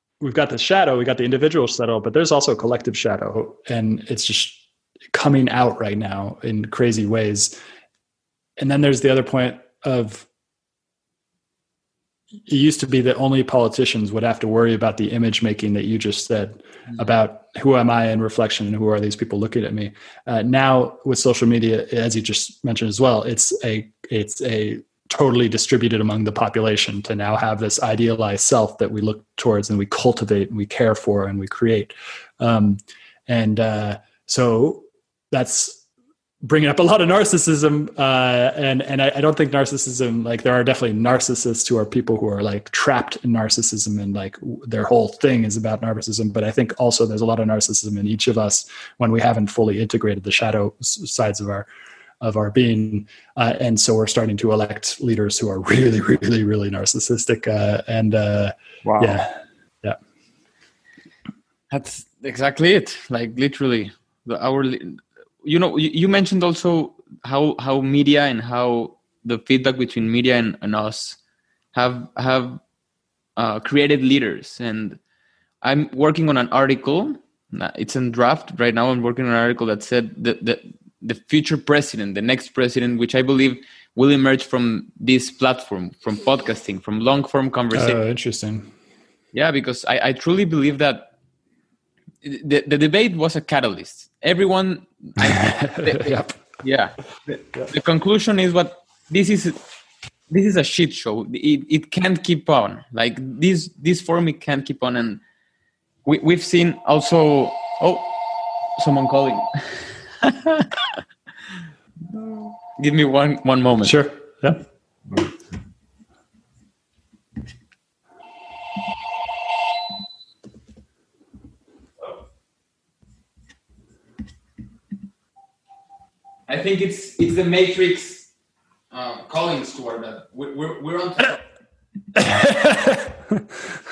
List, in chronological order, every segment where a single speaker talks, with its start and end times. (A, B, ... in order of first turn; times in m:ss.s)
0:00.2-0:04.6 A
0:05.1-0:07.5 A
0:08.6-0:10.3 A
0:12.5-0:35.8 A
0:36.4-0:51.6 A
0:52.2-1:00.0 A
0:58.8-0:59.2 B
1:01.7-1:11.2 B
1:11.7-1:12.6 B
1:13.4-1:15.0 B
1:15.6-1:28.0 B
1:27.7-1:28.7 A
1:29.3-1:31.1 B
1:32.2-1:39.6 B
1:35.3-1:36.4 A
1:40.3-1:45.2 B
1:46.0-1:48.2 B
1:48.8-1:51.0 B
1:52.0-1:54.0 B
1:53.8-1:54.6 A
2:06.5-2:08.3 B
2:08.9-2:11.4 B
2:12.2-2:13.0 A